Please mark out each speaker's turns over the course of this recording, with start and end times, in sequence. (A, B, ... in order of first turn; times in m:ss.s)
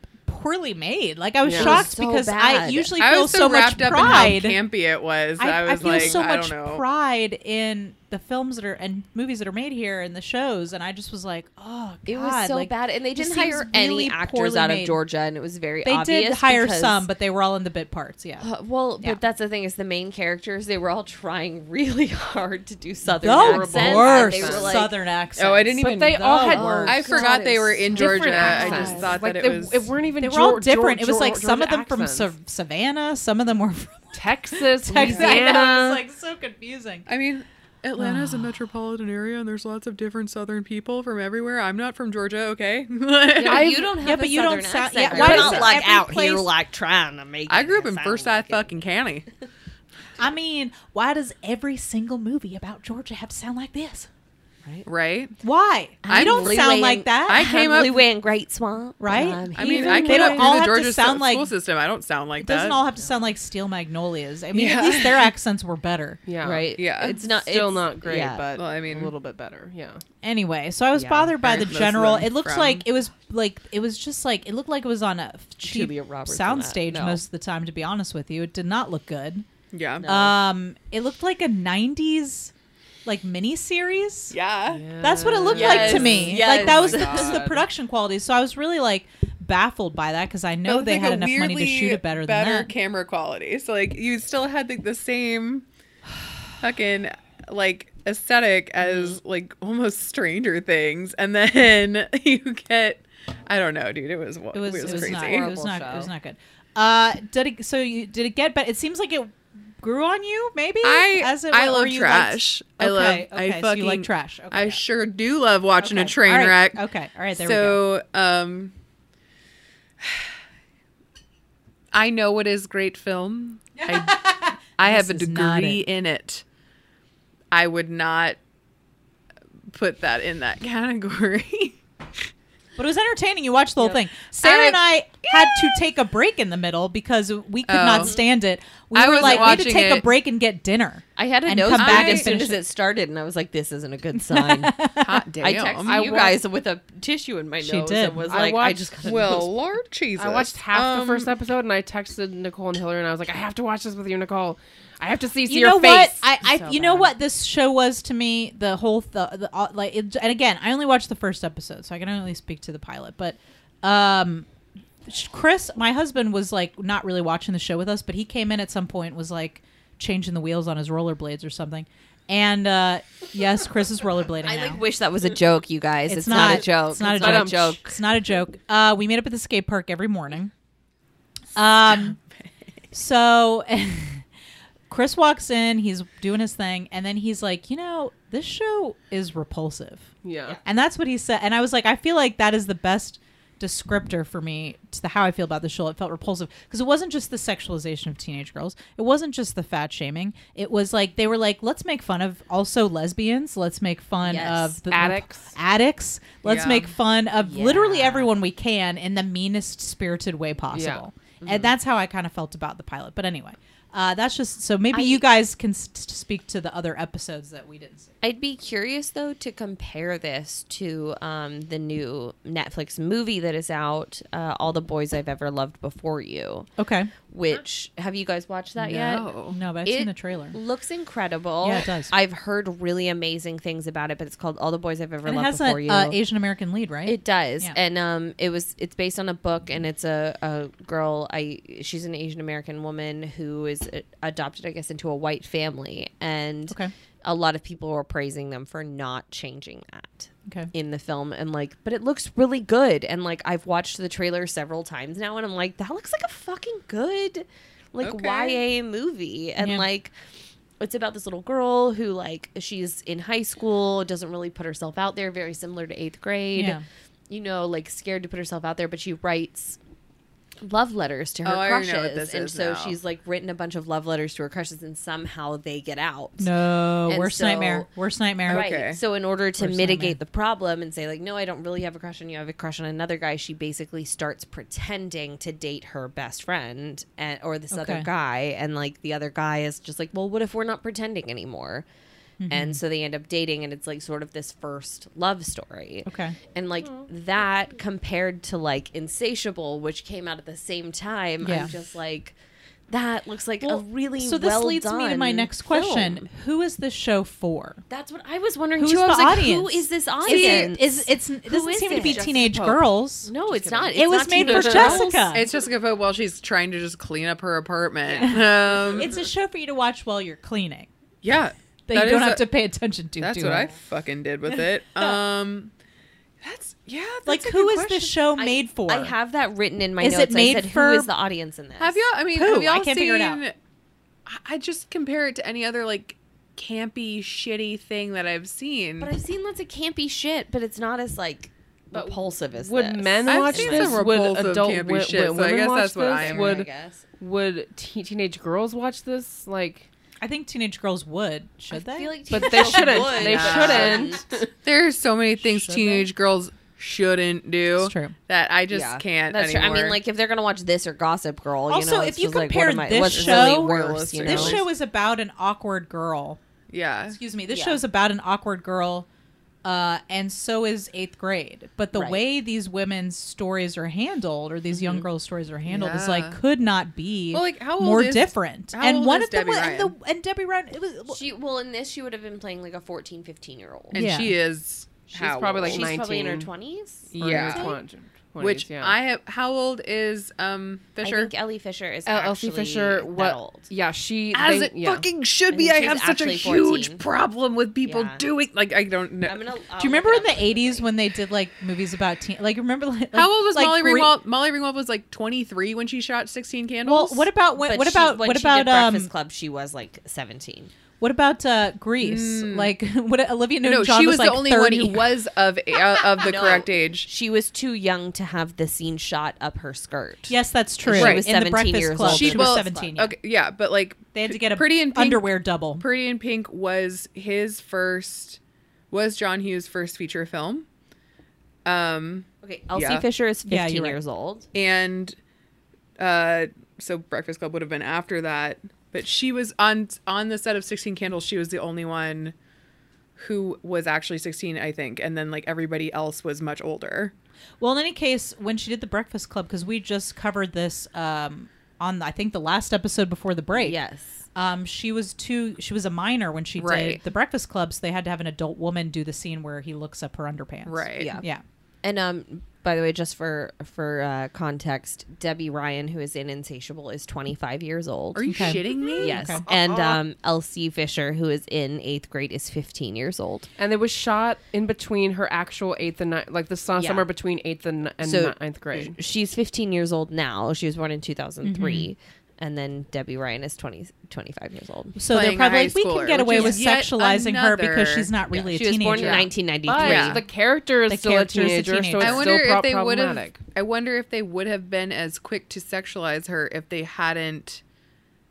0:00.2-0:04.6 A
0:01.4-0:01.9 B
0:01.5-0:03.0 C
0:03.0-0:06.8 D
0:05.4-0:15.0 A
0:05.8-0:06.2 C
0:12.1-0:17.1 C
0:15.8-0:18.4 A
0:18.4-0:24.9 C
0:23.2-0:26.9 A
0:23.2-0:24.8 B
0:25.4-0:29.9 D
0:25.8-0:27.3 B
0:26.5-0:29.2 C
0:27.9-0:32.3 B
0:28.4-0:28.9 A
0:30.2-0:37.0 A
0:34.1-0:36.0 B
0:34.9-0:35.4 C
0:35.0-0:35.4 D
0:37.1-0:43.9 D
0:38.0-0:38.5 A
0:43.4-0:43.9 B
0:43.4-0:48.8 C
0:44.0-0:46.5 A
0:45.1-0:45.7 D
0:45.2-0:45.6 B
0:47.5-0:49.3 D
0:50.2-0:54.1 A
0:54.8-0:55.3 D
0:55.4-0:57.5 A
0:56.0-1:00.5 C
0:56.1-0:58.1 D
0:59.0-1:01.5 A
0:59.5-1:02.8 D
0:59.7-1:00.1 B
1:02.4-1:06.2 A
1:04.5-1:05.3 D
1:06.2-1:10.0 B
1:06.4-1:08.5 C
1:06.8-1:07.2 D
1:08.5-1:09.1 D
1:10.2-1:19.4 A
1:10.9-1:11.3 C
1:11.4-1:12.8 D
1:15.6-1:17.2 C
1:19.7-1:20.1 D
1:20.0-1:20.4 C
1:20.0-1:22.5 A
1:23.0-1:24.3 A
1:24.3-1:24.8 D
1:24.6-1:27.6 B
1:25.0-1:32.7 A
1:25.5-1:27.4 C
1:25.5-1:26.7 D
1:30.6-1:35.6 D
1:36.6-1:45.5 D
1:38.8-1:39.2 C
1:44.5-1:54.8 A
1:44.8-1:46.1 C
1:50.8-1:56.8 D
1:55.8-1:57.8 A
1:57.3-1:58.7 D
2:00.0-2:00.3 D
2:01.9-2:06.4 D
2:03.8-2:05.8 A
2:07.5-2:08.4 D
2:09.7-2:11.8 D
2:12.8-2:22.6 A
2:14.4-2:15.8 D
2:17.6-2:18.2 D
2:17.9-2:18.2 C
2:18.9-2:20.1 D
2:19.2-2:19.9 C
2:21.2-2:24.8 C
2:21.7-2:22.3 D
2:24.1-2:25.2 A
2:25.0-2:26.0 D
2:25.4-2:29.5 C
2:25.8-2:26.4 B
2:27.6-2:28.2 A
2:28.3-2:29.5 B
2:29.0-2:31.3 D
2:30.2-2:37.0 B
2:35.5-2:44.5 A
2:45.0-2:54.8 A
2:54.4-2:58.0 C
2:56.1-3:00.5 A
2:57.0-2:57.9 B
3:01.5-3:02.2 A
3:01.9-3:02.5 D
3:02.9-3:04.2 A
3:04.9-3:10.1 A
3:10.2-3:10.6 B
3:10.6-3:38.1 A
3:24.2-3:24.8 C
3:24.9-3:25.6 B
3:26.4-3:26.9 D
3:27.4-3:28.3 C
3:30.7-3:31.0 B
3:31.4-3:31.7 C
3:34.9-3:35.2 C
3:38.2-3:46.7 C
3:46.8-3:47.1 A
3:47.3-3:49.3 C
3:48.8-3:50.6 A
3:49.0-3:49.6 D
3:49.8-3:56.2 C
3:51.6-3:52.1 A
3:55.2-3:57.8 A
3:57.0-4:20.1 C
4:18.0-4:18.6 D
4:19.6-4:19.8 A
4:20.8-4:29.8 C
4:26.5-4:26.8 A
4:30.6-4:36.5 C
4:31.4-4:33.0 D
4:36.4-4:38.6 A
4:37.1-4:37.9 C
4:38.5-4:39.0 D
4:38.5-4:51.8 C
4:39.6-4:40.2 A
4:47.7-4:48.1 A
4:52.4-4:52.8 A
4:52.5-5:02.4 C
4:56.0-4:56.4 A
5:01.4-5:01.7 A
5:02.9-5:06.3 C
5:03.6-5:07.8 A
5:07.9-5:12.3 C
5:08.8-5:13.3 A
5:10.3-5:10.7 D
5:11.9-5:12.8 B
5:13.2-5:15.3 C
5:13.4-5:15.0 B
5:13.9-5:15.5 A
5:15.3-5:19.1 D
5:18.0-5:18.8 C
5:18.2-5:20.9 A
5:21.2-5:22.5 D
5:21.9-5:23.7 A
5:23.2-5:25.7 D
5:24.5-5:25.2 A
5:26.4-5:28.2 D
5:27.2-5:29.1 A
5:28.4-5:32.0 C
5:30.0-5:31.1 A
5:31.8-5:33.5 D
5:32.3-5:33.4 A
5:34.3-5:39.1 D
5:39.0-5:44.0 C
5:41.9-5:46.7 B
5:43.2-5:46.6 D
5:46.1-5:47.0 C
5:47.2-5:49.9 B
5:50.2-5:53.5 A
5:51.7-5:54.2 C
5:52.3-5:54.5 B
5:53.0-6:00.0 D
5:55.4-5:56.1 A
5:57.8-5:58.1 A
5:58.7-6:04.6 C
6:01.7-6:06.4 A
6:03.0-6:04.6 D
6:06.7-6:07.2 D
6:07.1-6:09.0 A
6:07.5-6:07.8 C
6:09.6-6:21.2 A
6:11.9-6:12.2 C
6:14.7-6:15.0 C
6:15.7-6:16.4 D
6:17.3-6:19.9 D
6:21.1-6:24.0 C
6:23.9-6:25.9 D
6:23.9-6:24.3 A
6:25.1-6:26.5 B
6:25.6-6:27.5 C
6:27.1-6:27.7 D
6:27.2-6:29.0 B
6:27.3-6:27.8 A
6:28.4-6:31.3 D
6:31.0-6:33.7 C
6:32.0-6:35.0 B
6:34.3-6:39.4 D
6:35.5-6:37.0 C
6:37.8-6:38.2 C
6:39.2-6:40.9 C
6:39.8-6:44.1 A
6:43.1-6:47.3 D
6:46.8-6:49.1 A
6:47.6-6:50.7 C
6:51.0-6:55.1 A
6:52.0-6:52.7 D
6:53.6-6:57.1 D
6:56.1-7:02.8 C
7:00.3-7:03.1 A
7:00.9-7:01.2 D
7:02.0-7:08.4 D
7:04.1-7:05.8 A
7:08.9-7:10.6 D
7:11.6-7:13.0 D
7:12.4-7:14.5 C
7:13.5-7:14.0 A
7:14.5-7:15.2 D
7:16.0-7:22.3 D
7:23.2-7:27.1 D
7:27.6-7:33.8 A
7:33.5-7:34.2 C
7:34.3-7:41.4 A
7:36.6-7:37.0 D
7:40.6-7:41.2 D
7:41.0-7:41.2 C
7:41.8-7:53.5 C
7:48.1-7:50.0 D
7:48.3-7:49.4 A
7:53.6-7:59.0 B
7:56.8-7:57.1 C
7:58.0-8:05.0 C
8:01.4-8:01.9 A
8:05.0-8:09.3 A
8:05.1-8:08.1 D
8:06.3-8:06.6 C
8:08.3-8:10.2 C
8:08.9-8:10.2 D
8:09.6-8:13.4 B
8:10.9-8:12.3 A
8:12.0-8:17.6 D